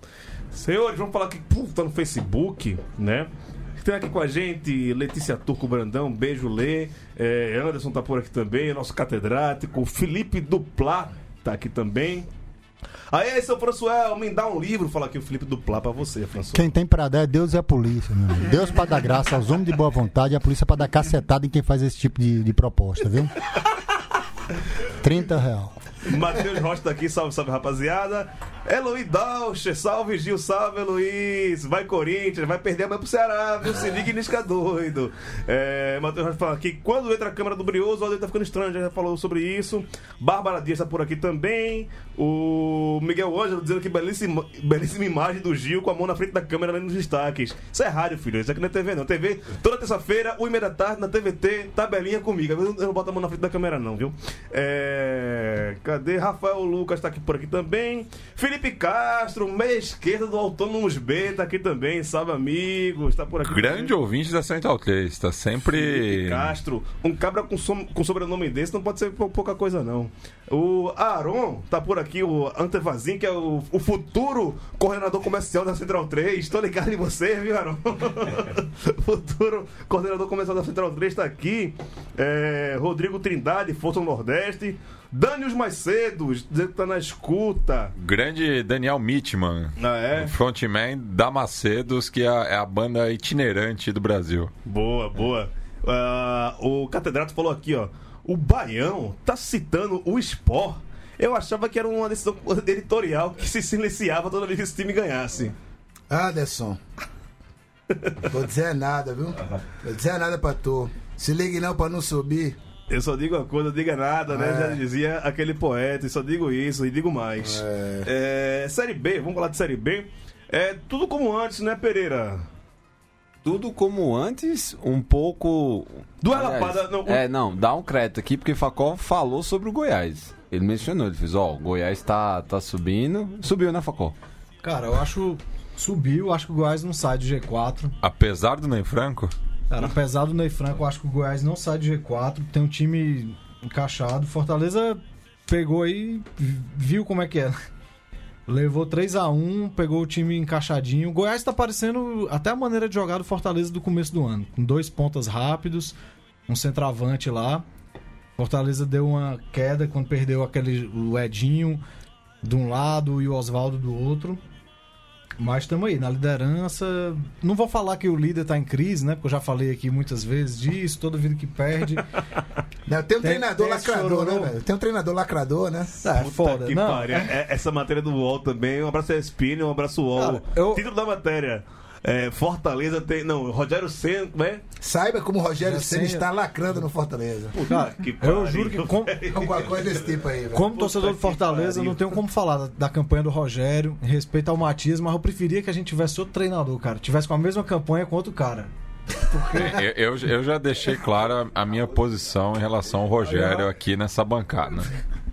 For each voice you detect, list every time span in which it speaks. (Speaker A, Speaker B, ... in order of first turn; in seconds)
Speaker A: 0.5-12.3, 13.1-16.7, 26.0-63.9, 65.6-87.9, 89.8-90.3, 94.6-105.5, 112.9-122.4, 126.2-127.2, 176.1-184.6, 187.5-192.2
Speaker B: 16.5-23.3, 25.0-25.8
Speaker C: 63.5-66.5, 88.0-94.5, 138.0-139.3, 199.5-204.9
Speaker D: 106.1-106.8, 108.2-112.6, 114.3-114.8, 117.4-118.1, 172.9-175.9, 184.8-187.6, 189.3-190.7, 199.6-199.8
Speaker E: 123.4-134.1
Speaker F: 134.6-137.9, 139.7-147.6, 148.5-156.0, 156.5-157.7, 158.4-161.8, 162.4-164.4, 165.4-172.1, 173.2-174.5, 176.0-177.2, 180.1-180.9, 185.6-186.2, 187.7-189.2, 190.5-198.7, 199.3-199.8, 203.2-203.7